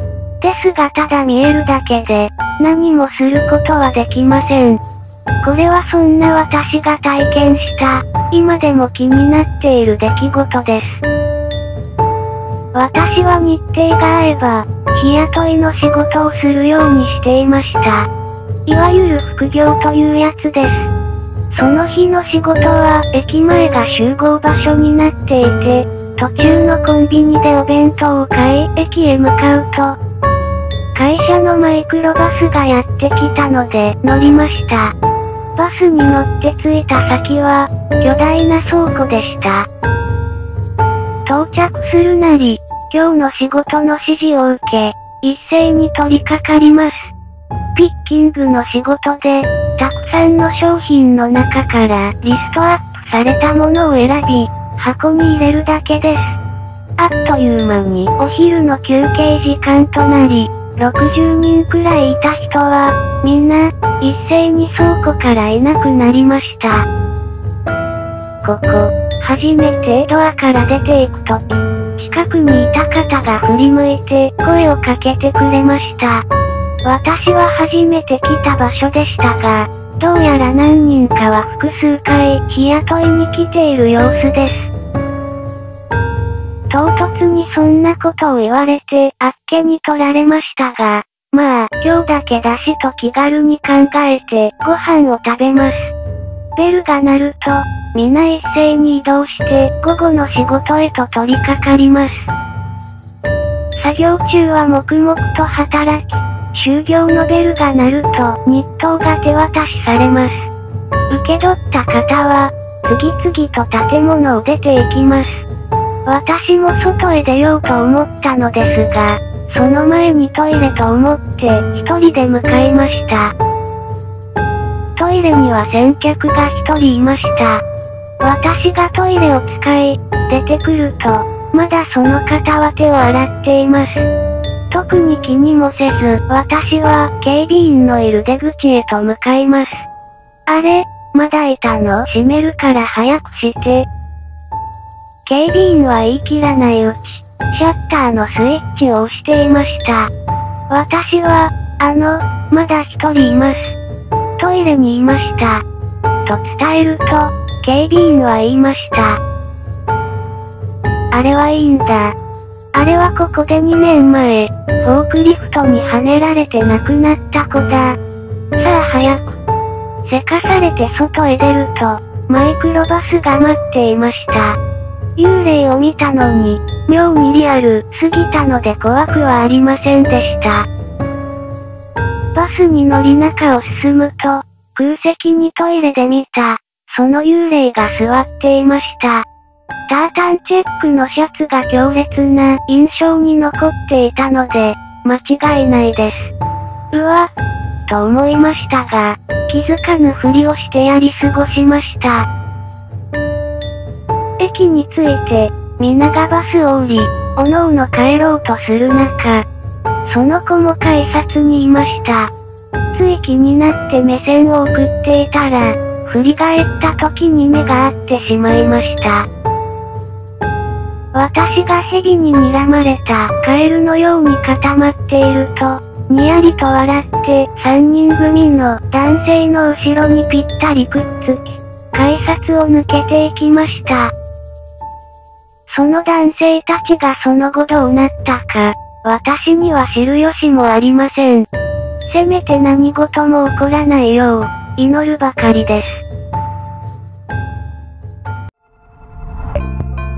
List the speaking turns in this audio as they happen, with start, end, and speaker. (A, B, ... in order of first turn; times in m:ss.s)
0:00.4-0:04.8 A
0:05.4-0:11.0 A
0:12.7-0:18.1 A
0:18.6-0:20.9 A
0:21.5-0:30.0 A
0:30.9-0:34.9 A
0:35.6-0:39.7 A
0:41.2-0:47.1 A
0:47.7-0:56.4 A
0:57.0-1:06.9 A
1:08.4-1:16.2 A
1:16.8-1:24.7 A
1:26.7-1:35.9 A
1:36.6-1:42.3 A
1:43.8-1:50.5 A
1:51.1-1:55.4 A
1:56.0-2:03.3 A
2:05.0-2:07.6 A
2:08.2-2:14.1 A
2:14.7-2:19.9 A
2:20.5-2:23.9 A
2:25.2-2:30.1 A
2:30.7-2:33.8 A
2:34.4-2:35.6 A
2:36.2-2:39.2 A
2:41.1-2:42.2 A
2:42.7-2:48.0 A
2:48.6-2:49.4 A
2:50.0-2:54.6 A
2:55.2-3:00.7 A
3:02.3-3:09.2 A
3:09.9-3:16.3 A
3:16.9-3:17.3 A
3:17.9-3:22.3 A
3:24.4-3:29.4 A
3:30.0-3:32.3 A
3:32.9-3:39.3 A
3:41.1-3:54.1 A
3:55.7-4:01.5 A
4:02.1-4:06.0 A